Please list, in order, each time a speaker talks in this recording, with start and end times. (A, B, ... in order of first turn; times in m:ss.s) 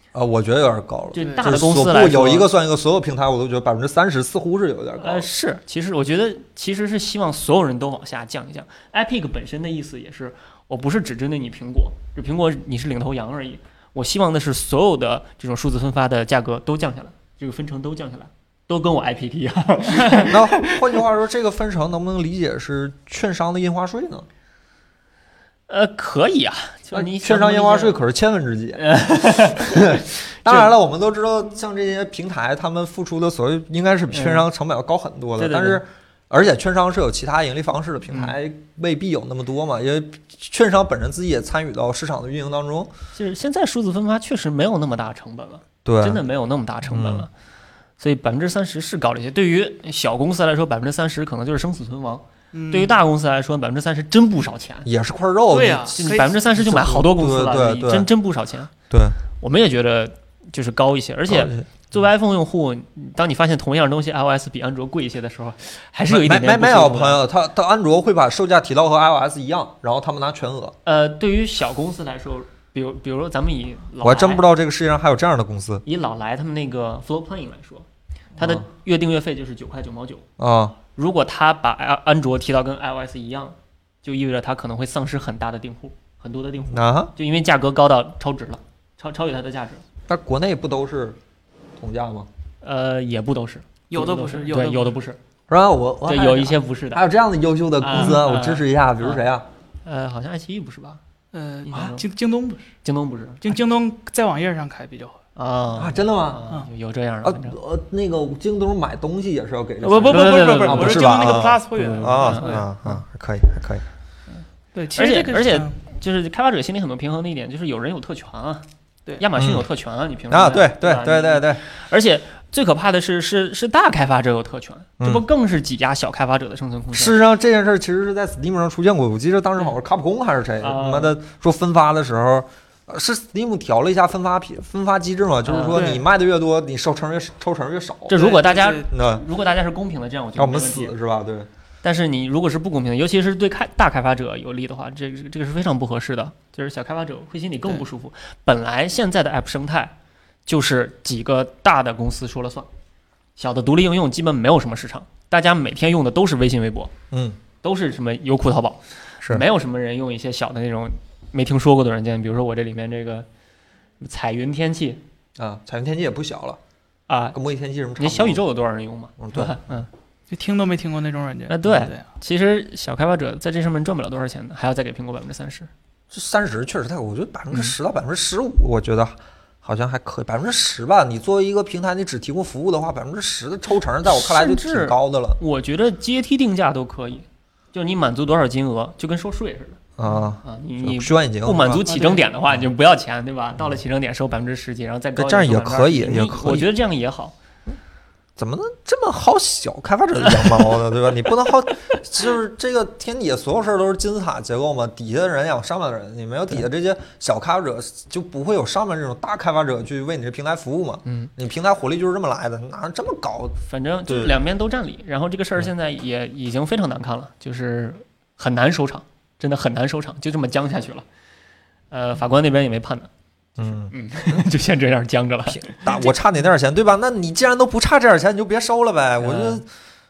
0:00.1-0:05.3 A
0:01.1-0:02.5 B
0:01.2-0:01.5 C
0:05.0-0:20.8 B
0:20.2-0:24.2 A
0:25.7-0:28.0 B
0:26.9-0:42.9 A
0:28.8-0:30.7 B
0:34.1-0:34.4 B
0:35.4-0:35.8 B
0:43.1-0:47.3 B
0:45.8-0:46.2 A
0:46.9-0:47.3 A
0:48.0-0:54.9 B
0:52.5-0:53.0 C
0:54.8-0:58.1 A
0:55.5-0:56.3 C
0:55.9-0:58.7 B
0:58.9-0:59.2 A
0:59.4-1:07.2 B
1:01.3-1:01.7 A
1:06.1-1:10.8 A
1:10.8-1:14.4 B
1:14.0-1:15.8 A
1:15.8-1:17.8 B
1:18.4-1:20.2 B
1:18.4-1:18.6 A
1:20.4-1:20.8 A
1:21.0-1:29.8 B
1:26.7-1:27.1 A
1:30.1-1:31.2 A
1:31.8-1:32.3 A
1:32.6-1:35.2 B
1:33.9-1:35.0 C
1:35.5-1:39.4 A
1:36.0-1:37.0 B
1:37.8-1:39.2 B
1:39.8-1:41.0 B
1:41.3-1:42.7 C
1:41.7-1:42.0 B
1:42.8-1:43.5 B
1:43.4-1:45.2 C
1:45.4-1:47.6 B
1:45.8-1:46.4 A
1:47.2-1:53.8 A
1:49.8-1:52.6 C
1:50.0-1:51.2 B
1:51.7-1:53.0 B
1:54.7-1:55.8 C
1:54.9-1:58.6 B
1:59.2-2:07.2 B
1:59.4-1:59.6 A
2:00.3-2:01.6 A
2:05.0-2:05.2 A
2:06.9-2:18.2 A
2:10.6-2:11.2 B
2:15.4-2:15.8 B
2:15.7-2:16.0 C
2:18.1-2:20.9 B
2:18.1-2:18.9 C
2:18.9-2:19.2 A
2:20.4-2:21.5 A
2:21.8-2:29.9 B
2:30.4-2:32.7 B
2:33.4-2:36.9 B
2:37.1-2:37.4 A
2:37.6-2:43.3 B
2:44.0-2:45.0 B
2:45.4-2:46.6 A
2:47.1-2:47.4 B
2:47.3-2:48.4 A
2:48.0-2:49.9 B
2:49.2-2:49.6 A
2:50.3-2:52.0 C
2:51.5-2:55.7 B
2:56.1-3:05.4 A
3:04.0-3:09.8 B
3:10.0-3:11.8 A
3:10.4-3:17.3 B
3:11.9-3:12.2 C
3:15.2-3:16.7 A
3:18.4-3:34.3 A
3:31.0-3:31.3 B
3:33.7-3:41.0 B
3:41.9-3:43.1 B
3:43.6-3:44.4 A
3:43.7-3:45.8 B
3:45.5-3:49.6 A
3:45.9-3:46.1 C
3:49.2-3:49.6 B